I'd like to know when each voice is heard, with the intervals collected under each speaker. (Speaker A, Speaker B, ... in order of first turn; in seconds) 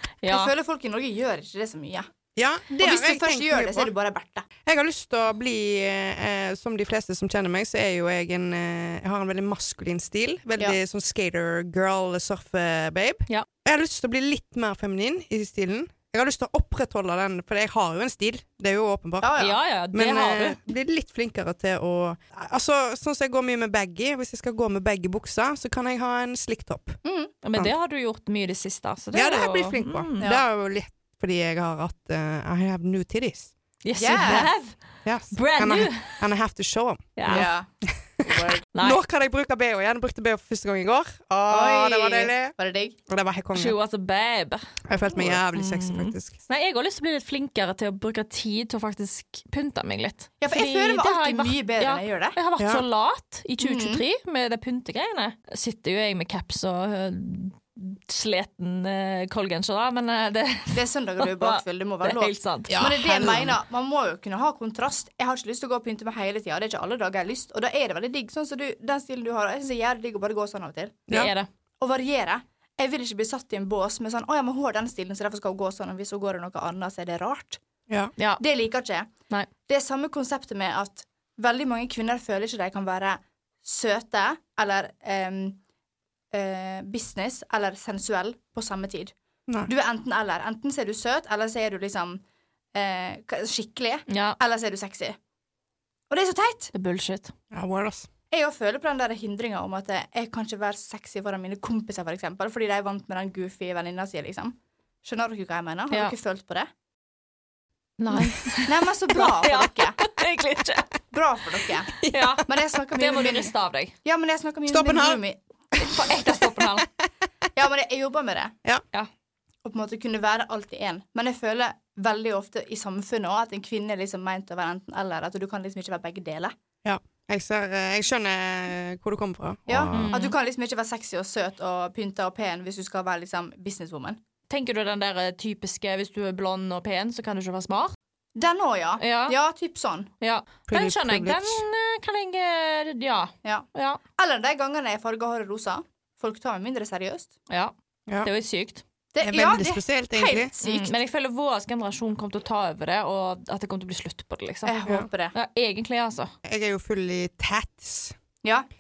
Speaker A: 0.2-0.5, 19.4-20.6, 27.4-30.3, 33.8-34.8, 35.3-36.2, 37.2-37.5, 38.7-39.0, 43.5-44.6, 45.1-62.8, 71.1-71.5, 94.1-94.4, 96.7-97.3, 108.0-111.0, 111.9-113.9, 115.8-116.9, 129.9-130.3, 134.5-137.9, 139.0-139.3, 140.2-144.0, 148.2-148.8, 150.6-154.8, 155.3-156.3
Speaker B: 0.2-2.1, 2.7-4.5, 19.2-19.6, 27.0-27.3, 34.0-34.5, 37.3-37.7, 38.2-38.6, 41.5-43.0, 50.4-52.4, 53.6-54.0, 60.7-71.0, 71.8-77.6, 78.4-79.1, 79.7-85.6, 86.3-89.1, 89.6-92.2, 92.7-95.2, 96.1-96.7, 98.3-106.7, 108.7-110.0, 111.1-111.9, 112.4-115.4, 117.5-118.5, 119.6-126.5, 129.7-134.2, 138.3-140.1, 144.2-147.3, 149.1-150.9, 154.7-155.3
Speaker C: 2.4-3.9, 4.7-19.3, 19.9-27.0, 29.1-33.5, 35.0-42.5, 43.1-43.8, 44.9-46.4, 52.6-52.8, 62.7-63.5, 97.5-98.1, 112.0-112.4, 114.7-115.2, 115.8-116.9, 126.8-130.1, 140.7-141.6, 149.2-150.5, 156.4-158.2